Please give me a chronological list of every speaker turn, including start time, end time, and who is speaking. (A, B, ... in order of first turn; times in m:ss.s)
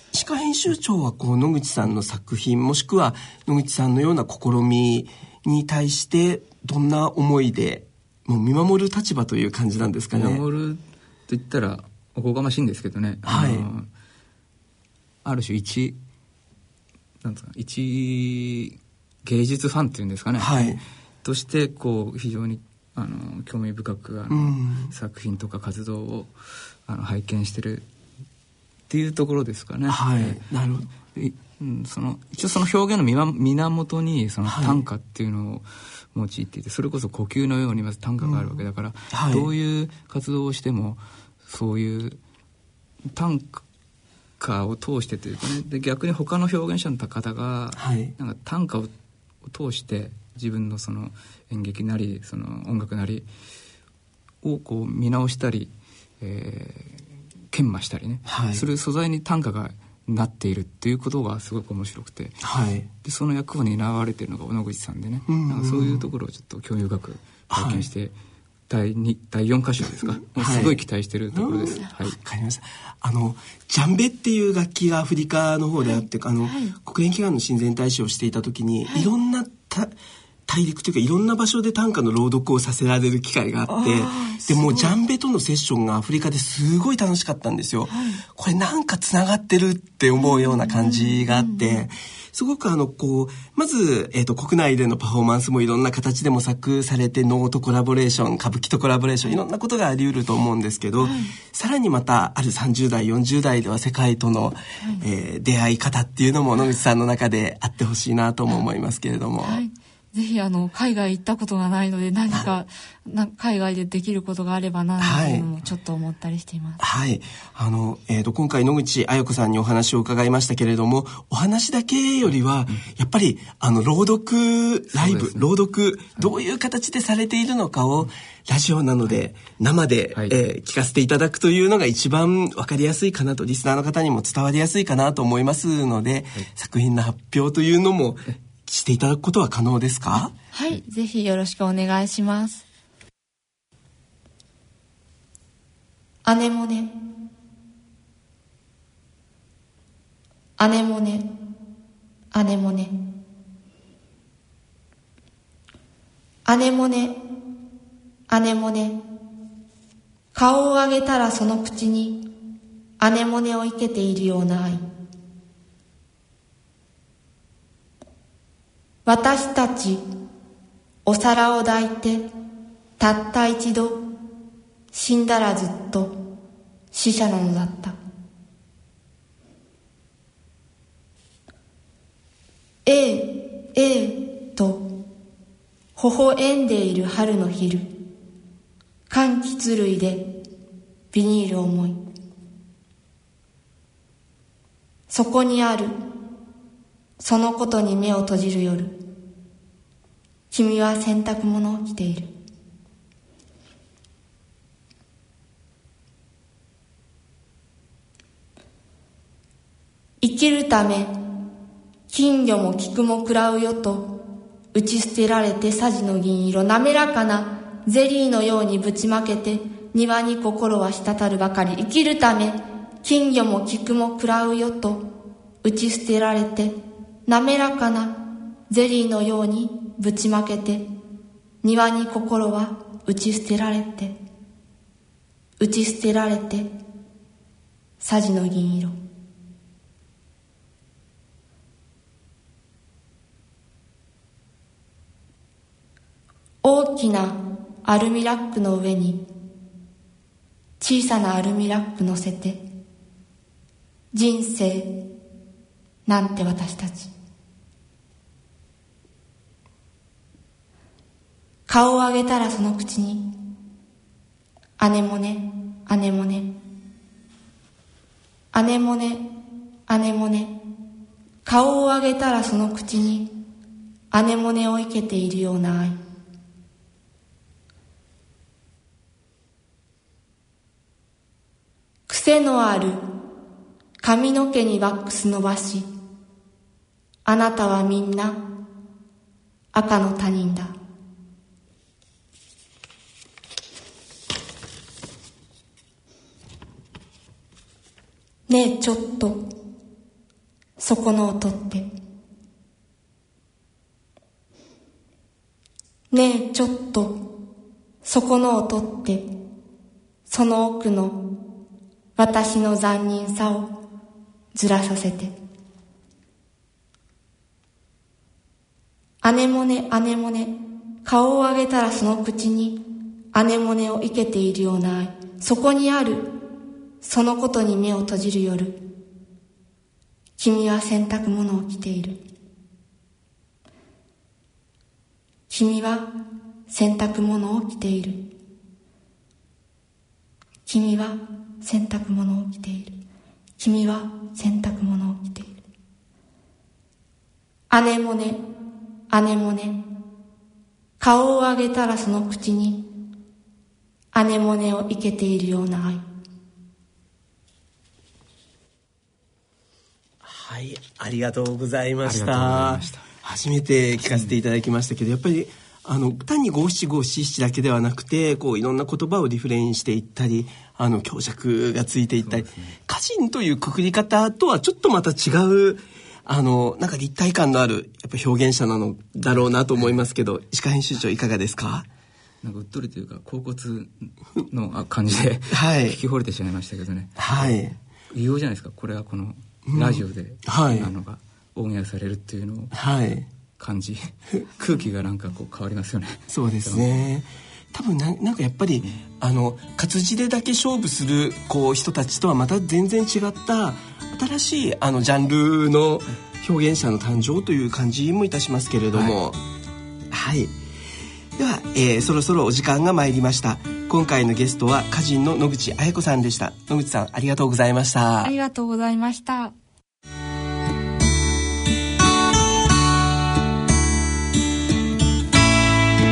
0:00.1-0:10.4 A
0:10.1-0:13.9 B
0:13.2-0:13.6 A
0:15.2-0:16.0 B
0:17.2-0:26.3 B
0:20.4-0:20.8 A
0:24.3-0:24.9 A
0:26.9-0:27.9 B
0:28.9-0:30.4 B
0:29.9-0:30.9 A
0:31.1-0:42.2 B
0:34.4-0:34.8 A
0:38.2-0:39.5 A
0:43.1-0:43.6 B
0:44.4-0:48.9 B
0:47.7-0:48.1 A
0:49.4-0:53.3 B
0:54.4-1:02.4 B
0:58.2-0:58.6 A
1:02.4-1:02.9 A
1:03.0-1:08.1 B
1:05.3-1:06.1 A
1:07.5-1:07.9 A
1:08.7-1:12.2 B
1:10.4-1:10.8 A
1:11.3-1:19.9 A
1:15.8-1:16.8 C
1:20.5-1:49.6 A
1:23.7-1:24.9 C
1:27.9-1:28.2 C
1:30.2-1:31.8 C
1:41.0-1:41.3 C
1:49.4-1:56.8 C
1:55.0-1:55.5 A
1:56.8-2:20.3 A
2:04.9-2:05.5 B
2:10.1-2:10.4 B
2:20.5-2:22.6 C
2:26.2-2:26.9 C
2:30.6-2:31.3 C
2:32.3-2:33.0 C
2:36.4-2:37.2 C
2:38.3-2:39.0 C
2:40.3-2:42.3 C
2:43.0-2:44.8 C
2:49.0-2:50.0 C
2:51.0-2:52.3 C
2:53.0-2:54.0 C
2:54.9-2:56.2 C
2:56.9-2:58.0 C
3:02.8-3:05.0 C
3:06.0-3:07.9 C
3:09.1-3:10.4 C
3:11.1-3:12.1 C
3:15.1-3:16.0 C
3:17.2-3:19.0 C
3:20.5-3:22.3 C
3:30.2-3:31.1 C
3:32.1-3:34.2 C
3:34.7-3:50.9 C
3:51.6-3:54.2 C
3:55.6-3:56.7 C
3:58.0-3:58.9 C
4:06.6-4:09.2 C
4:10.8-4:12.6 C
4:14.1-4:15.0 C
4:16.0-4:17.1 C
4:21.7-4:23.3 C
4:24.8-4:26.5 C
4:28.5-4:30.6 C
4:31.4-4:33.4 C
4:34.1-4:36.0 C
4:42.1-4:43.0 C
4:44.0-4:45.9 C
4:47.2-4:48.5 C
4:49.7-4:50.7 C
4:58.5-4:59.5 C
5:00.8-5:01.9 C
5:06.1-5:07.3 C
5:08.0-5:09.3 C
5:10.3-5:11.3 C
5:12.2-5:13.8 C
5:14.5-5:15.3 C
5:19.2-5:26.3 C
5:27.0-5:28.8 C
5:30.4-5:32.2 C
5:35.5-5:36.1 C
5:36.7-5:38.3 C
5:40.6-5:43.0 C
5:43.6-5:45.6 C
5:47.7-5:48.4 C
5:49.1-5:49.8 C
5:51.0-5:52.9 C
5:54.1-5:56.0 C
6:00.2-6:21.9 A
6:02.0-6:03.1 B
6:12.2-6:12.7 B
6:22.4-6:27.6 B
6:25.5-6:26.0 A
6:27.2-6:27.7 A
6:28.1-6:32.7 B
6:29.6-6:30.9 A
6:32.7-6:33.3 A
6:33.6-6:37.0 B
6:36.3-6:49.4 A
6:50.1-6:50.5 A
6:51.4-6:58.3 A
6:58.2-6:59.5 C